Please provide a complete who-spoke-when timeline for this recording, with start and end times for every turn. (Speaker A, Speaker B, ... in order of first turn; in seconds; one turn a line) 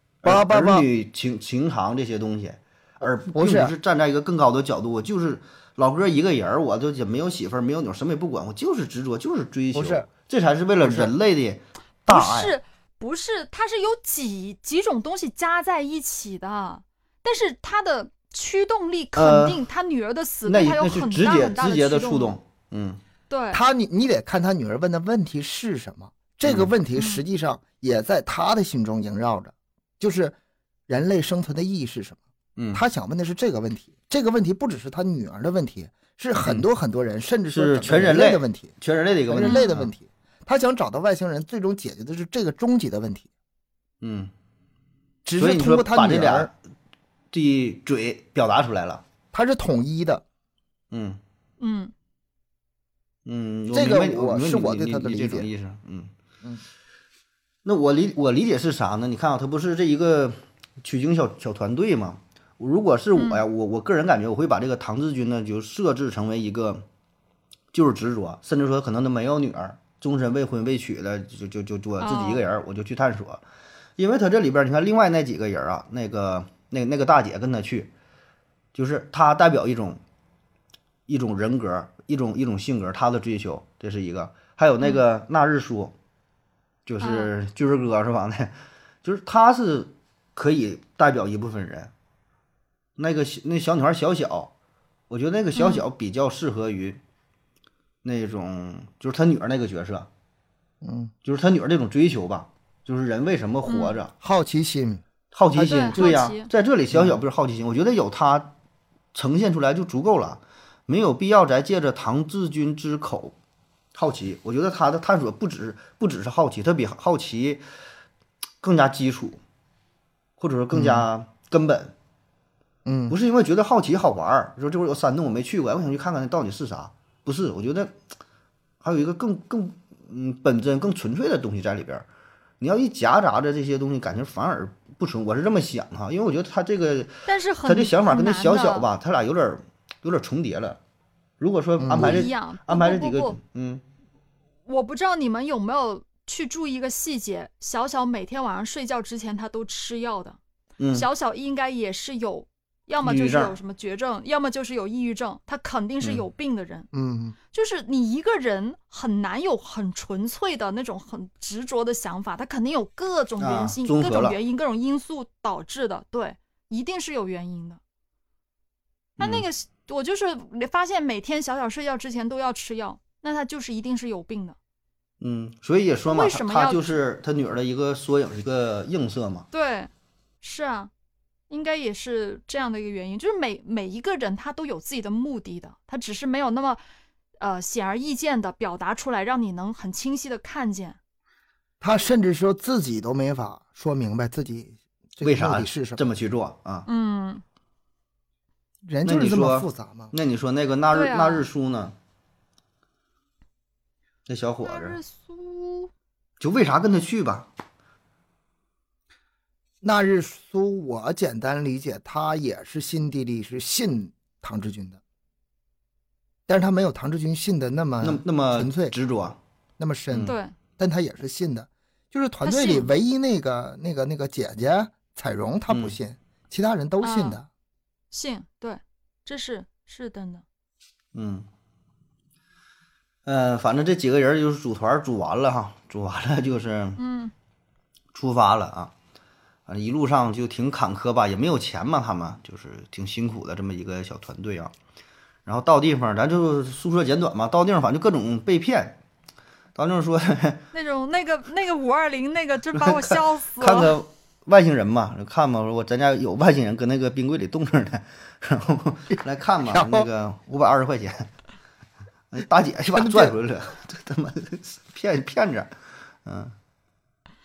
Speaker A: 0.2-12.6
Speaker B: 0.2-0.8
Speaker B: 3.0-3.7
Speaker B: 9.7-10.1
Speaker B: 10.8-11.1
Speaker C: 12.1-22.3
Speaker A: 19.1-19.6
Speaker A: 20.4-23.0
Speaker C: 23.3-23.6
Speaker B: 23.5-30.4
Speaker A: 26.4-26.7
Speaker C: 26.9-27.2
Speaker B: 30.9-32.2
Speaker A: 32.6-32.8
Speaker B: 32.7-38.7
Speaker A: 37.5-39.9
Speaker B: 39.3-43.3
Speaker C: 39.4-39.7
Speaker A: 44.0-44.3
Speaker B: 45.2-46.5
Speaker A: 45.4-46.5
Speaker A: 47.3-49.0
Speaker B: 49.3-50.2
Speaker A: 50.9-51.2
Speaker C: 51.6-51.9
Speaker A: 53.2-56.1
Speaker B: 53.7-55.5
Speaker A: 57.6-66.8
Speaker C: 63.1-63.4
Speaker A: 67.7-73.4
Speaker C: 72.0-72.4
Speaker A: 74.0-77.9
Speaker A: 78.7-80.0
Speaker A: 81.1-85.9
Speaker A: 86.8-91.9
Speaker C: 87.0-87.3
Speaker A: 93.0-94.5
Speaker A: 95.1-97.0
Speaker C: 95.5-95.8
Speaker A: 98.0-100.1
Speaker B: 100.8-101.1
Speaker A: 101.2-104.1
Speaker C: 103.7-104.0
Speaker B: 104.2-105.0
Speaker A: 105.3-108.5
Speaker C: 105.5-106.5
Speaker B: 105.6-105.9
Speaker B: 106.9-107.2
Speaker A: 109.1-113.3
Speaker A: 113.9-117.6
Speaker A: 118.6-119.4
Speaker A: 120.4-121.9
Speaker B: 120.7-121.1
Speaker B: 122.8-123.2
Speaker A: 123.1-128.0
Speaker A: 128.8-132.1
Speaker A: 132.6-140.8
Speaker C: 137.2-138.9
Speaker A: 141.4-143.8
Speaker B: 141.8-142.3
Speaker C: 141.9-143.4
Speaker C: 144.7-150.4
Speaker A: 150.8-151.1
Speaker C: 150.9-156.9
Speaker A: 153.0-153.6
Speaker B: 156.9-157.3
Speaker C: 157.5-167.8
Speaker A: 163.4-164.4
Speaker C: 169.2-174.6
Speaker A: 169.2-169.4
Speaker A: 175.2-179.5
Speaker C: 176.1-177.0
Speaker C: 179.5-179.9
Speaker C: 180.4-180.9
Speaker C: 181.5-186.8
Speaker C: 187.4-191.0
Speaker B: 191.8-196.0
Speaker A: 195.2-196.9
Speaker C: 196.9-197.4
Speaker B: 198.9-200.1
Speaker A: 199.0-201.9
Speaker C: 200.9-201.5
Speaker A: 204.3-205.0
Speaker C: 204.6-205.9
Speaker A: 206.4-207.5
Speaker B: 209.8-215.0
Speaker B: 216.5-218.9
Speaker A: 218.0-219.4
Speaker B: 219.8-227.5
Speaker A: 220.1-220.3
Speaker C: 220.2-220.5
Speaker C: 222.4-222.9
Speaker A: 225.7-226.0
Speaker C: 227.0-227.4
Speaker C: 228.1-230.4
Speaker A: 231.1-231.5
Speaker A: 233.2-237.0
Speaker C: 237.0-237.3
Speaker A: 238.1-238.9
Speaker A: 239.7-244.7
Speaker A: 245.4-249.0
Speaker A: 249.8-250.7
Speaker C: 250.7-253.9
Speaker A: 253.1-261.3
Speaker B: 259.7-260.1
Speaker A: 262.3-265.7
Speaker B: 262.9-263.3
Speaker A: 266.2-266.5